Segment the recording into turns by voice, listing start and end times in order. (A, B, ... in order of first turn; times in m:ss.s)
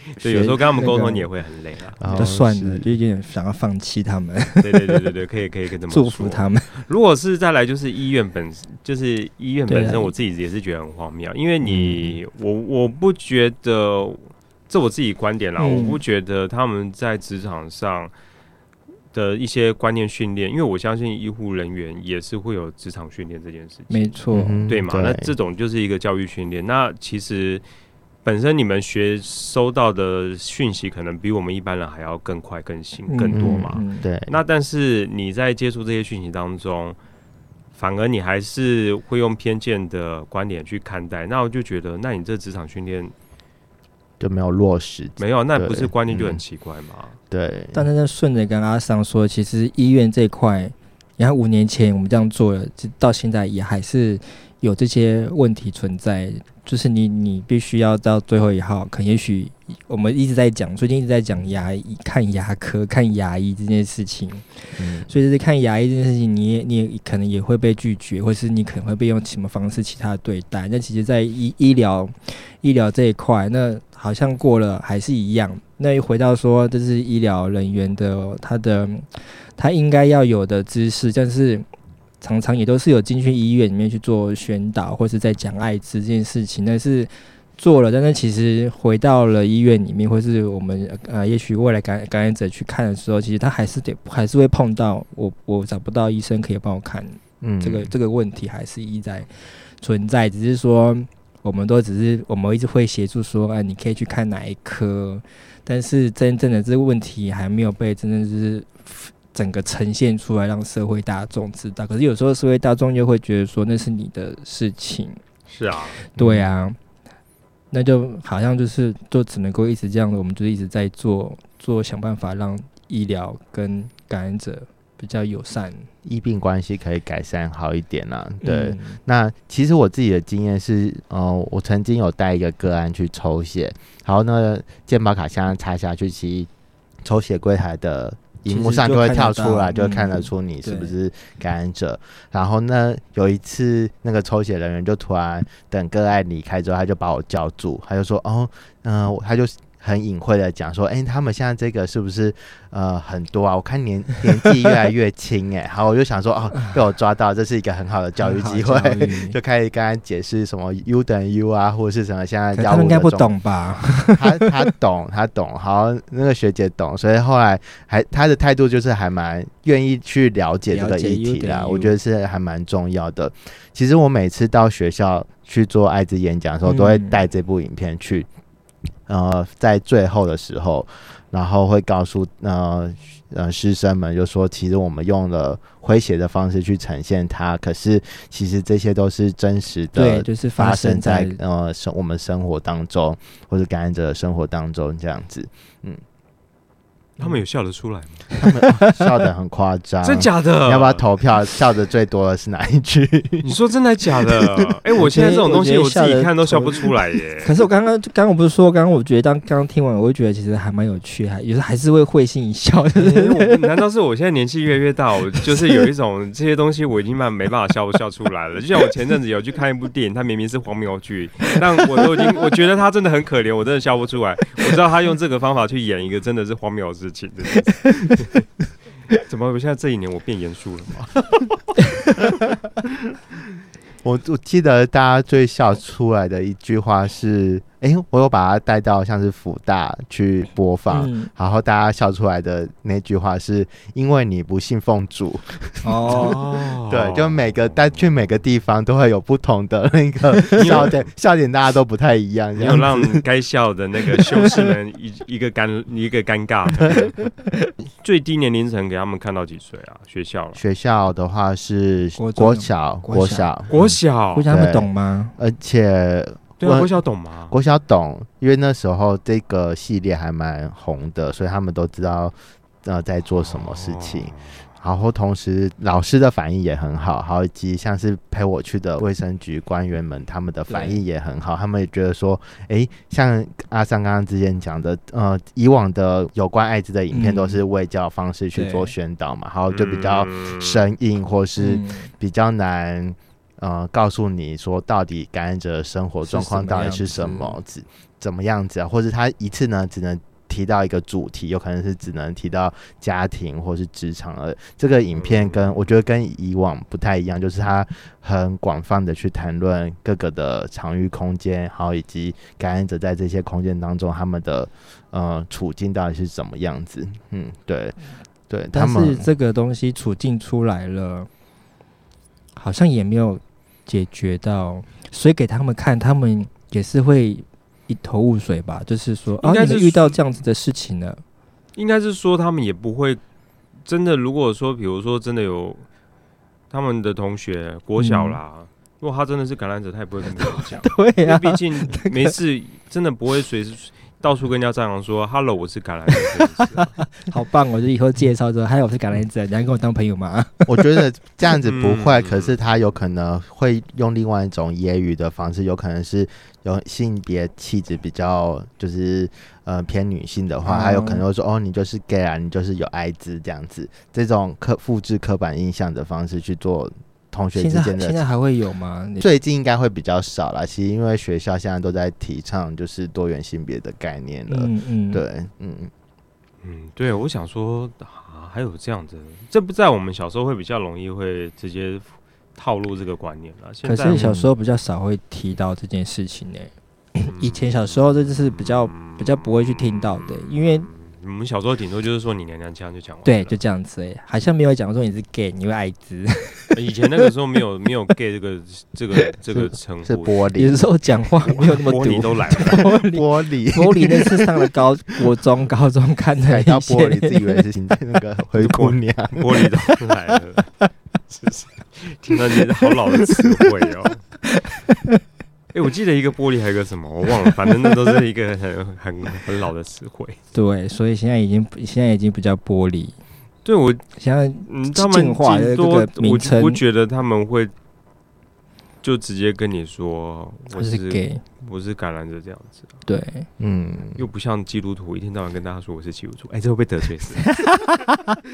0:00.2-0:02.3 A
0:00.2-0:01.3 B
0:02.0-0:02.9 C
0:02.1-0:05.0 B
0:04.6-0:18.1 A
0:05.9-0:06.7 B
0:09.7-0:10.1 B
0:11.6-0:12.2 C
0:15.6-0:16.0 B
0:19.1-0:27.6 A
0:23.9-0:24.6 B
0:24.3-0:25.3 C
0:28.2-0:37.0 A
0:33.1-0:34.0 B
0:33.3-0:34.3 C
0:37.7-0:43.1 A
0:44.2-0:46.4 C
0:45.2-0:47.2 A
0:47.3-0:47.8 C
0:47.7-1:21.6 B
1:04.8-1:05.1 C
1:22.2-1:55.2 B
1:37.4-1:37.9 C
1:55.5-1:56.0 A
1:56.1-1:56.8 B
1:56.2-1:56.5 C
1:57.7-2:05.9 B
2:06.0-2:16.5 C
2:08.4-2:09.0 B
2:17.0-2:43.3 C
2:18.5-2:20.9 B
2:38.2-2:39.4 B
2:42.5-2:44.5 B
2:44.1-2:58.3 C
2:50.7-2:51.9 B
2:56.6-2:57.2 B
2:59.1-3:16.0 C
3:09.9-3:11.4 B
3:17.2-3:18.3 A
3:18.4-3:23.5 C
3:20.0-3:21.0 A
3:23.4-3:27.5 A
3:24.2-3:24.7 C
3:25.0-3:26.8 B
3:27.4-3:33.6 B
3:32.9-3:48.5 A
3:49.1-3:51.4 A
3:54.0-4:13.2 C
4:00.9-4:01.3 B
4:05.8-4:06.4 B
4:06.1-4:08.1 A
4:10.6-4:11.0 A
4:12.6-4:17.3 A
4:18.0-4:20.6 A
4:20.5-4:23.9 C
4:22.2-4:23.5 B
4:23.7-4:24.5 A
4:24.3-4:25.3 B
4:24.5-4:26.9 C
4:26.6-4:27.5 A
4:27.5-5:18.0 C
4:33.5-4:34.7 A
4:40.7-4:41.0 B
4:47.1-4:47.6 B
4:48.5-4:48.9 B
4:49.7-4:50.8 A
4:51.6-4:52.1 B
4:56.2-4:57.6 B
5:05.2-5:05.8 A
5:18.5-5:19.3 C
5:18.7-5:21.3 B
5:22.6-5:31.2 B
5:29.4-5:30.2 A
5:31.8-5:33.2 A
5:33.8-5:35.9 A
5:36.7-5:46.9 A
5:38.0-5:38.4 B
5:40.8-5:42.3 B
5:47.2-5:50.7 B
5:50.7-6:08.2 C
5:51.6-5:52.6 A
6:00.6-6:01.2 B
6:07.6-6:09.2 B
6:09.2-6:15.9 C
6:14.5-6:15.2 B
6:16.6-6:24.2 A
6:23.8-6:30.9 B
6:24.1-6:24.5 C
6:27.3-6:33.6 A
6:33.2-6:36.7 B
6:36.7-6:40.4 A
6:39.5-6:40.8 C
6:40.6-6:47.6 B
6:41.5-6:42.8 A
6:42.7-6:44.5 C
6:46.4-6:50.1 C
6:48.6-6:50.8 A
6:51.3-6:54.2 A
6:53.3-6:53.6 C
6:55.7-7:00.4 A
7:00.5-7:03.2 B
7:03.6-7:04.1 A
7:04.2-7:06.8 B
7:04.6-7:07.7 A
7:09.0-7:13.0 A
7:10.7-7:11.4 B
7:13.1-7:13.5 B
7:13.6-7:14.2 C
7:14.1-7:17.6 A